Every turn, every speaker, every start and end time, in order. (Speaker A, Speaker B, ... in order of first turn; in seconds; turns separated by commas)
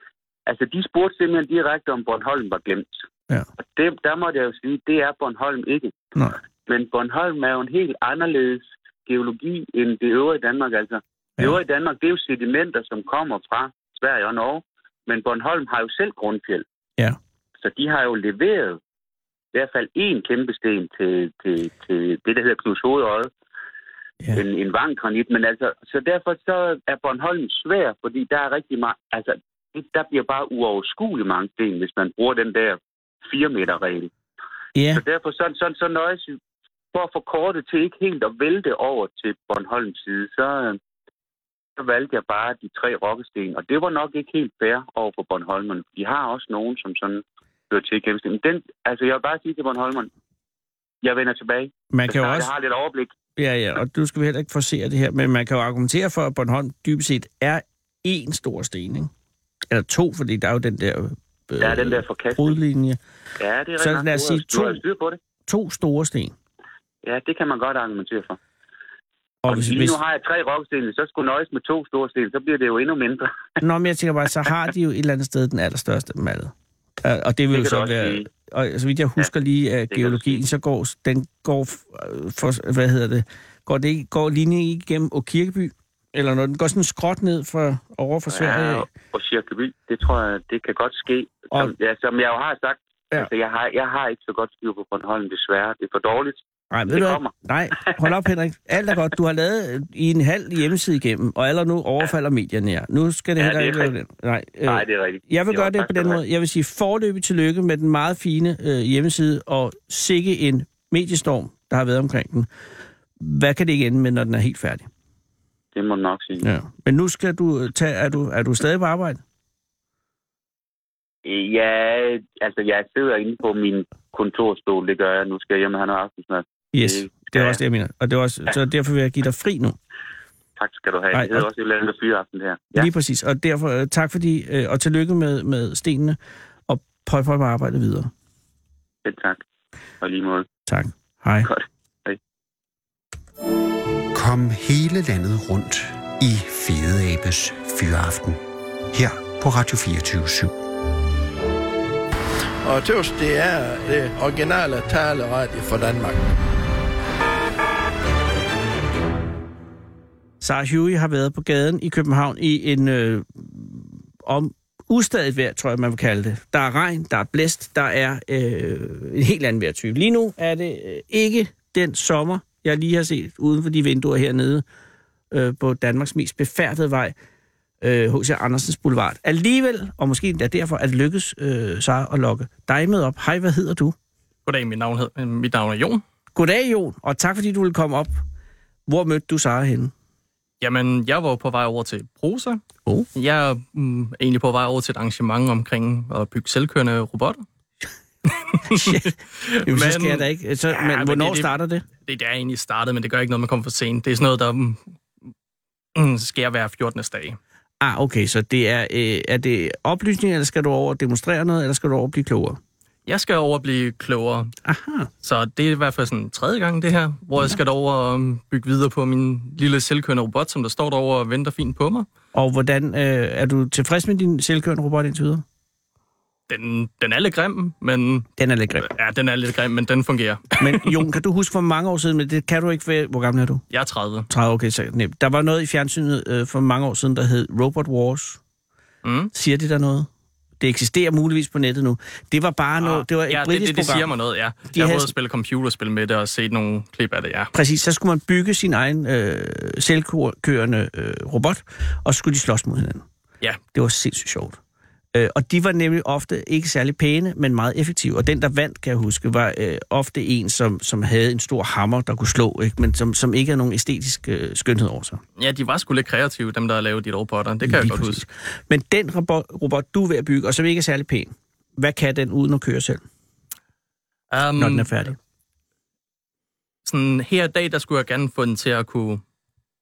Speaker A: 0.5-3.0, Speaker A: 3.6-6.0, Speaker A: 6.7-16.6, Speaker A: 17.6-18.8, Speaker A: 19.5-23.3, Speaker A: 24.4-34.1, Speaker B: 34.8-35.0, Speaker A: 35.0-36.4, Speaker A: 36.9-40.8, Speaker A: 41.8-50.1, Speaker A: 51.0-53.1, Speaker B: 51.9-52.5, Speaker B: 53.4-59.1, Speaker B: 59.7-63.0, Speaker A: 61.6-62.6, Speaker A: 63.4-65.2, Speaker B: 63.8-64.8, Speaker B: 65.5-66.3, Speaker A: 67.0-68.4, Speaker B: 69.4-70.0, Speaker A: 69.5-73.4, Speaker B: 73.6-76.5, Speaker B: 77.0-88.9, Speaker A: 77.5-78.3, Speaker A: 79.9-80.4, Speaker A: 88.3-98.0, Speaker B: 96.7-112.5, Speaker A: 103.4-103.9, Speaker A: 104.7-106.2, Speaker B: 113.2-114.9, Speaker A: 115.8-116.5, Speaker B: 116.4-119.2, Speaker A: 121.2-127.6, Speaker B: 126.7-129.8, Speaker A: 130.6-132.9, Speaker B: 131.1-131.5, Speaker B: 132.7-136.2, Speaker B: 136.7-138.1, Speaker A: 139.1-139.4, Speaker A: 140.0-140.5, Speaker B: 140.7-141.5, Speaker A: 141.5-142.2, Speaker C: 144.1-148.4, Speaker C: 148.9-150.6, Speaker D: 152.7-156.2, Speaker B: 160.4-174.6, Speaker B: 175.3-177.1, Speaker B: 177.8-183.9, Speaker E: 184.5-186.0, Speaker B: 186.3-188.2, Speaker B: 188.9-189.9, Speaker E: 190.6-192.6, Speaker E: 193.2-197.4, Speaker E: 198.3-201.5, Speaker B: 198.7-201.8, Speaker E: 202.0-204.8, Speaker E: 206.0-207.4, Speaker B: 207.8-212.6, Speaker E: 213.1-214.5, Speaker B: 214.7-215.1, Speaker E: 215.2-222.1, Speaker B: 222.3-225.4, Speaker E: 226.5-228.3, Speaker B: 228.4-228.9, Speaker E: 228.8-230.9, Speaker B: 230.6-233.6, Speaker E: 233.7-234.3, Speaker B: 234.3-238.4, Speaker E: 239.0-239.3, Speaker B: 239.3-240.1, Speaker B: 240.6-244.1, Speaker E: 242.8-247.5, Speaker B: 244.7-245.1, Speaker B: 247.5-253.1, Speaker B: 253.7-254.6, Speaker B: 255.1-265.2, Speaker E: 265.4-268.2, Speaker B: 267.6-273.0, Speaker E: 274.3-274.9, Speaker B: 274.6-275.2, Speaker E: 276.9-279.2